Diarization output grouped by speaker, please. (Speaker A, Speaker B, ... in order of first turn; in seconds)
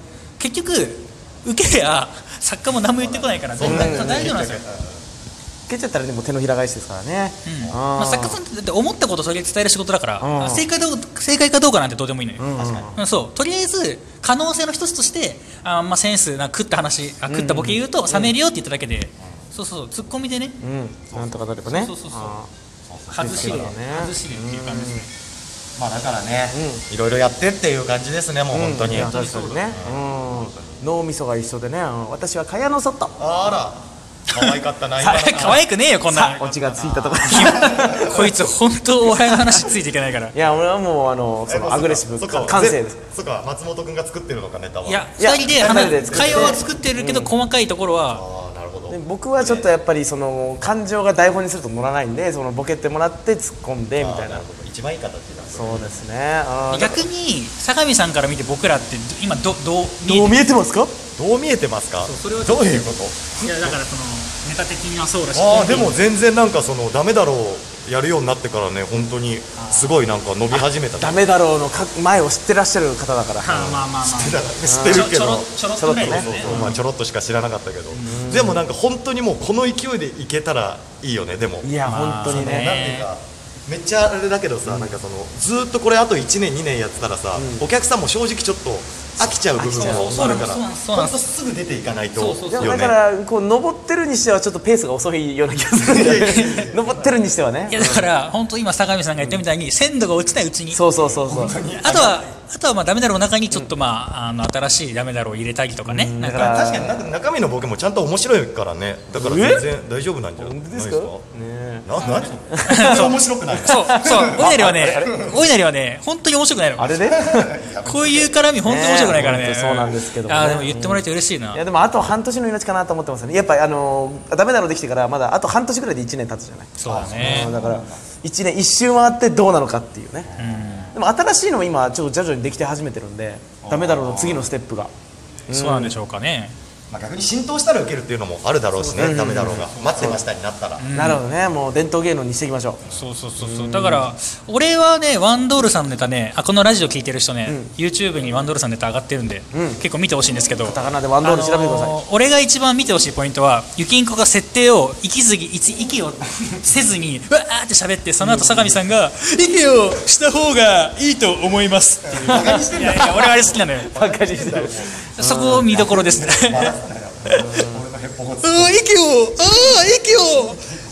Speaker A: 0.4-4.6, 7.4-20.6, 21.6-22.4, 23.1-25.1, 28.9-29.5, 34.3-36.4, 37.2-40.3, 42.4-42.6, 44.8-48.2, 56.7-60.4, 62.0-66.0, 69.6-70.0, 73.4-76.8, 77.9-78.2, 81.8-83.1, 89.6-91.2, 92.1-92.8, 96.1-96.7, 97.7-100.8, 101.7-106.6, 112.0-117.2, 117.8-121.6, 126.8-127.5, 130.4-130.9, 135.5-136.5, 138.8-140.2, 140.8-141.2, 142.8-163.9, 165.1-166.7, 167.3-167.6, 168.4-170.6
Speaker B: 3.0-5.0, 12.6-13.0, 21.1-21.4, 22.9-23.7, 25.8-30.8, 33.2-35.6, 36.3-38.3, 41.5-46.6, 48.1-49.7, 54.0-56.0, 61.2-63.7, 65.3-71.2, 73.5-93.0, 95.8-97.3, 101.0-102.2, 106.3-111.2, 111.8-115.3, 117.0-118.3, 126.8-128.0, 133.6-134.5, 136.9-140.8, 162.1-165.1, 165.6-168.8
Speaker C: 3.6-4.3, 5.7-8.4, 10.2-10.7, 12.4-13.0, 17.3-18.3, 20.6-22.5, 23.1-25.1, 26.5-26.8, 28.5-33.1, 35.0-38.1, 40.3-43.0, 45.2-47.3, 48.9-54.4, 55.5-57.1, 60.0-60.9, 70.5-73.8, 74.6-75.1, 75.8-76.8, 78.0-78.6, 81.6-82.8, 84.7-84.9, 87.3-87.6, 89.6-90.4, 92.5-98.1, 100.7-101.6, 105.8-107.0, 109.1-109.7, 110.4-111.9, 112.5-115.1, 116.8-117.5, 118.6-130.3, 130.9-134.9, 135.5-136.0, 138.9-140.2, 140.9-142.8, 143.4-144.1, 147.4-147.7, 149.5-149.8, 150.6-152.0, 158.2-158.8, 162.2-162.9, 163.8-165.9, 167.3-167.8